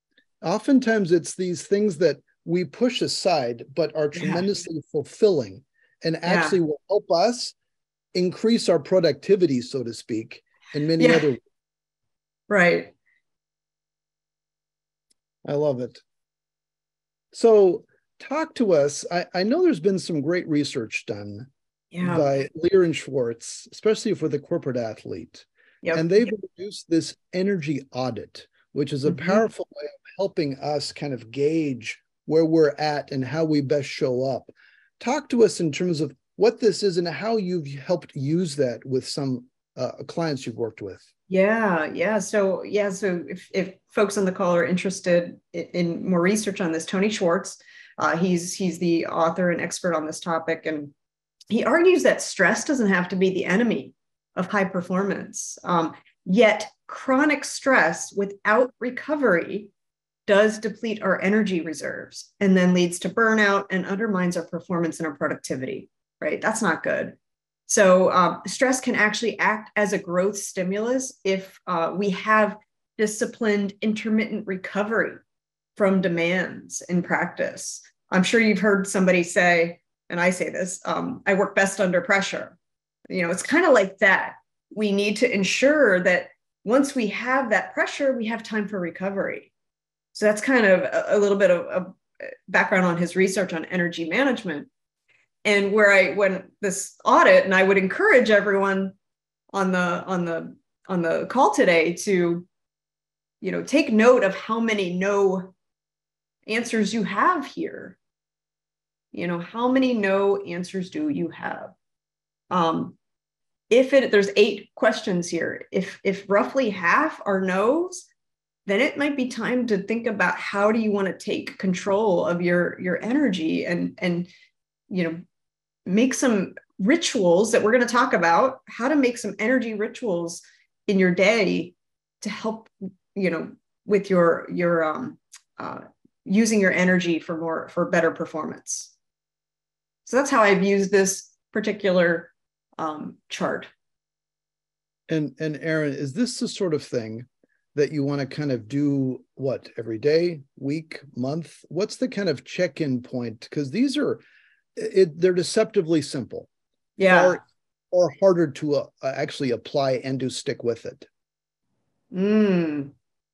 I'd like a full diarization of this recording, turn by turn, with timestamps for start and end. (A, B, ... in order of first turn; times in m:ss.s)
0:00.4-0:07.6 A
0:04.2-0:04.5 B
0:06.3-0:06.6 B
0:08.1-0:11.4 A
0:11.0-0:11.3 B
0:12.5-0:12.9 B
0:15.4-0:16.0 A
0:17.3-0:21.5 A
0:21.9-0:22.3 B
0:22.0-0:41.0 A
0:25.8-0:26.2 B
0:29.1-0:29.4 B
0:41.3-0:50.9 B
0:51.5-0:59.7 B
1:00.3-1:07.2 B
1:07.7-1:15.2 B
1:15.8-1:22.6 B
1:23.1-1:29.5 B
1:30.1-1:32.0 B
1:32.5-1:34.7 B
1:35.4-1:39.0 B
1:39.5-1:42.5 B
1:43.4-1:45.5 B
1:46.5-1:48.0 B
1:49.1-1:51.7 B
1:52.5-1:53.0 B
1:53.7-1:58.1 B
1:58.7-2:04.3 B
2:04.9-2:05.2 B
2:05.9-2:18.9 B
2:20.1-2:23.7 B
2:25.1-2:34.2 A
2:34.8-2:36.5 A
2:37.0-2:37.4 B
2:37.0-2:41.1 A
2:42.1-2:42.9 B